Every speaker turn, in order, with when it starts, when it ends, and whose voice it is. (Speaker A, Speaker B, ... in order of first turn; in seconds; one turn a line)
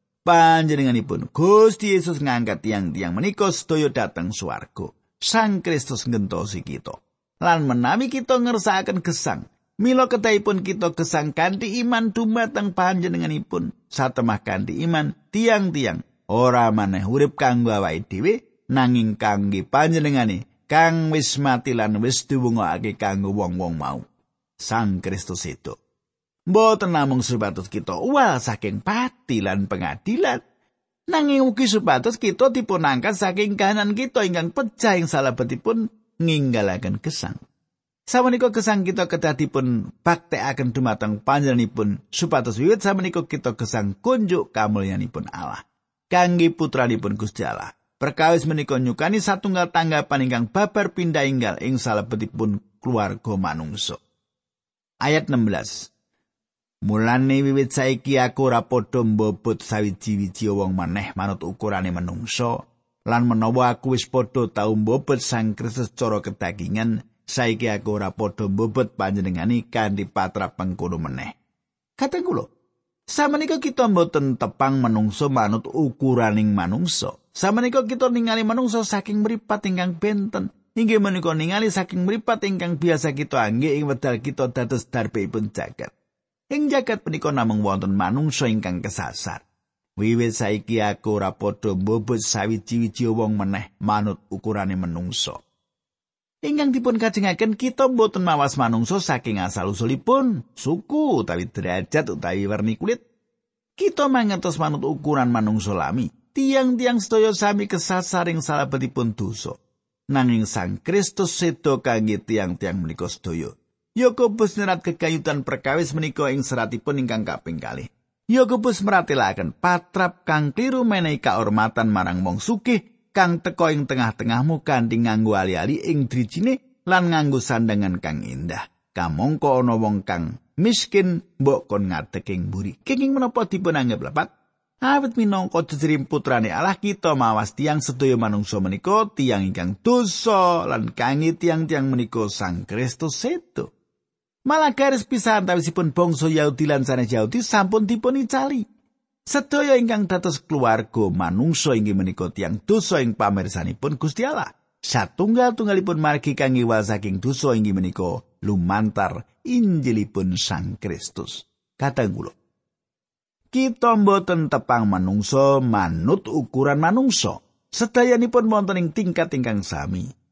Speaker A: 0.2-24.0
Speaker A: 24.6-25.8
Speaker A: 26.5-30.4
Speaker A: 31.1-37.4
Speaker A: 38.1-54.0
Speaker A: 55.0-55.9
Speaker A: 56.8-71.3
Speaker A: 72.0-72.5
Speaker A: 73.1-85.9
Speaker A: 86.5-89.4
Speaker A: 90.0-95.4
Speaker A: 96.4-103.0
Speaker A: 103.8-109.6
Speaker A: 110.1-134.3
Speaker A: 134.8-143.7
Speaker A: 144.4-148.6
Speaker A: 149.3-162.3
Speaker A: 163.5-170.1